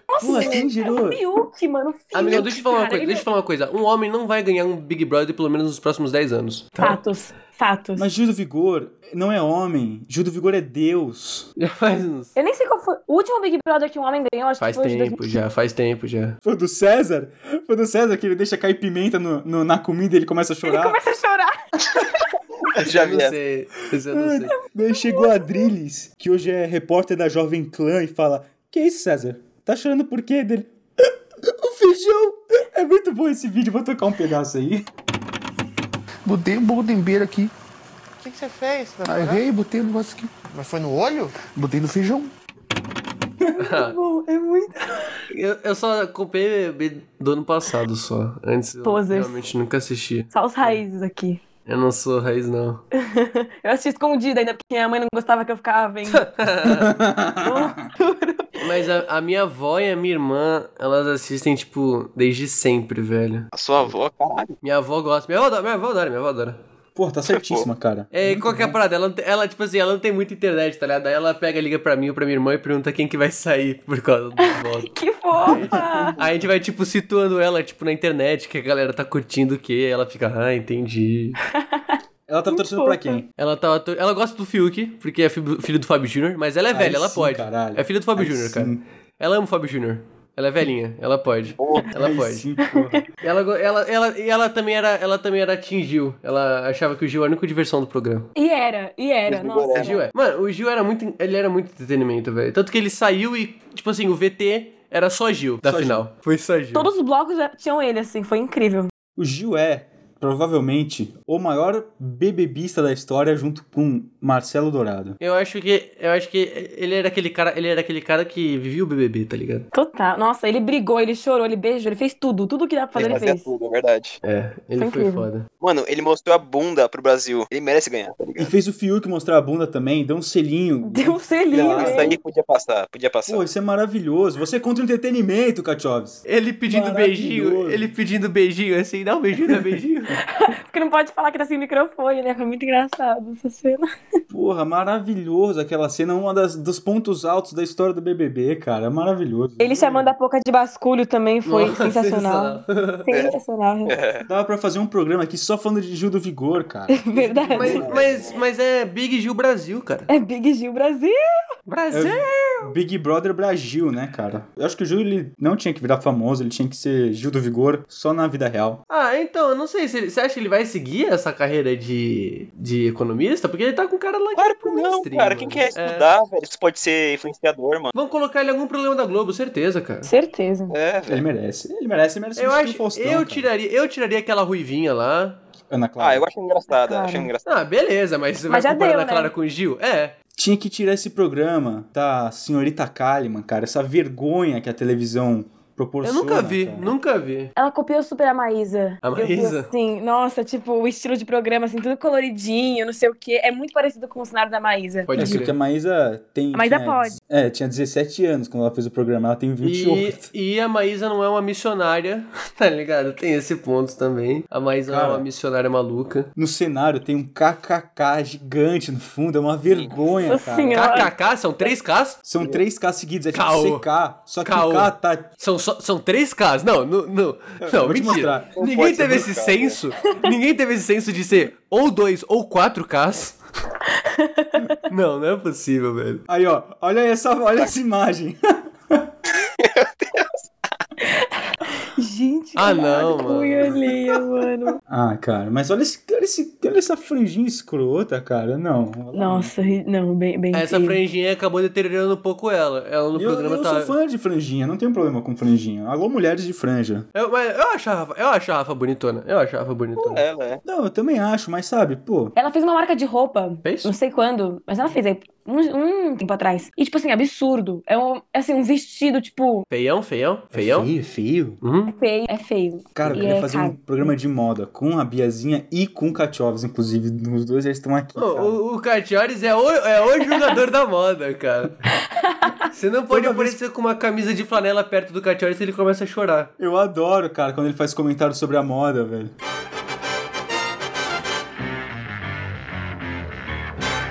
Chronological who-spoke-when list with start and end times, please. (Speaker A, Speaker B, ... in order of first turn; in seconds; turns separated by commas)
Speaker A: 0.1-3.2, Speaker B: 0.2-1.2, Speaker C: 2.1-7.0, Speaker A: 6.8-8.1, Speaker B: 8.0-11.5, Speaker C: 11.6-12.3, Speaker A: 12.3-15.3, Speaker C: 14.6-16.4, Speaker B: 16.4-21.0, Speaker A: 20.6-22.2, Speaker D: 22.6-23.3, Speaker C: 22.7-24.6, Speaker B: 24.1-30.7, Speaker A: 24.9-25.7, Speaker B: 31.4-34.9, Speaker E: 36.2-37.5, Speaker F: 38.2-39.5, Speaker E: 39.0-40.5, Speaker F: 40.5-41.4, Speaker E: 41.4-42.3, Speaker A: 43.4-45.0, Speaker C: 43.6-44.0, Speaker C: 45.3-50.8, Speaker A: 48.8-49.4, Speaker A: 50.3-51.4, Speaker C: 51.6-52.8, Speaker A: 53.0-56.3, Speaker C: 56.1-56.9, Speaker B: 56.6-57.8, Speaker A: 57.4-58.8, Speaker C: 58.6-63.5, Speaker D: 63.5-64.5, Speaker C: 64.6-66.6, Speaker B: 67.0-68.8, Speaker D: 67.3-67.7, Speaker C: 68.1-81.4, Speaker A: 74.4-76.2, Speaker B: 75.5-76.1, Speaker A: 81.5-82.0, Speaker B: 82.3-83.3, Speaker A: 82.5-83.2, Speaker C: 83.4-92.5, Speaker B: 86.7-88.8, Speaker D: 91.6-91.9, Speaker B: 91.9-93.1, Speaker A: 92.6-93.0, Speaker C: 93.2-98.3, Speaker A: 98.3-100.0, Speaker D: 99.3-99.9, Speaker C: 99.8-106.9, Speaker B: 105.6-106.0, Speaker A: 106.7-108.9, Speaker B: 109.2-115.2, Speaker C: 115.2-119.7, Speaker A: 119.7-123.5, Speaker C: 123.0-123.2, Speaker D: 123.0-124.2, Speaker C: 124.2-125.5, Speaker A: 124.8-125.3, Speaker D: 125.6-128.5, Speaker B: 128.4-132.2, Speaker A: 130.8-132.2, Speaker D: 131.7-133.4, Speaker B: 133.2-137.9, Speaker C: 136.3-140.2, Speaker A: 140.3-143.9, Speaker B: 144.3-150.0, Speaker A: 149.6-153.9, Speaker C: 151.4-153.1, Speaker D: 153.1-153.3, Speaker D: 153.9-154.2, Speaker B: 154.2-158.2, Speaker A: 156.9-157.8, Speaker D: 157.5-158.4, Speaker C: 157.5-160.1, Speaker A: 160.1-161.4, Speaker C: 161.7-162.7, Speaker B: 161.9-168.8, Speaker C: 168.9-176.1, Speaker D: 174.3-177.9, Speaker C: 177.9-180.1, Speaker A: 180.0-180.7, Speaker D: 180.7-181.2, Speaker B: 181.1-183.5, Speaker C: 182.4-185.4, Speaker B: 185.7-186.2, Speaker D: 186.0-187.4, Speaker A: 186.7-187.3, Speaker C: 187.4-190.1, Speaker A: 188.5-189.3, Speaker B: 190.3-196.9, Speaker C: 196.0-197.5, Speaker A: 197.6-205.4, Speaker C: 199.0-199.7, Speaker C: 205.1-205.5, Speaker B: 205.2-210.3, Speaker A: 206.5-207.2, Speaker C: 209.6-216.3, Speaker B: 214.8-215.2, Speaker B: 216.3-221.1, Speaker D: 219.7-220.5, Speaker A: 220.2-221.1, Speaker C: 220.7-222.2, Speaker B: 222.2-225.3, Speaker C: 223.3-223.8, Speaker C: 224.4-233.4, Speaker B: 227.6-228.6, Speaker D: 228.6-229.8, Speaker A: 233.9-234.8, Speaker C: 234.9-236.2, Speaker B: 236.3-239.1, Speaker D: 239.4-240.3, Speaker A: 241.0-244.8, Speaker C: 242.6-243.8, Speaker B: 244.9-249.7, Speaker A: 249.1-251.0, Speaker C: 250.5-253.9, Speaker B: 253.1-257.1, Speaker C: 257.1-260.2, Speaker D: 259.9-260.6, Speaker B: 260.6-262.3, Speaker A: 262.3-269.6, Speaker C: 263.6-263.9, Speaker C: 269.7-270.9, Speaker B: 270.5-271.6, Speaker C: 271.6-272.0, Speaker A: 271.9-274.1, Speaker B: 272.9-278.6, Speaker C: 273.0-273.3, Speaker C: 278.2-281.8, Speaker A: 282.1-282.7, Speaker C: 282.7-286.5, Speaker B: 283.1-283.6, Speaker B: 286.6-289.3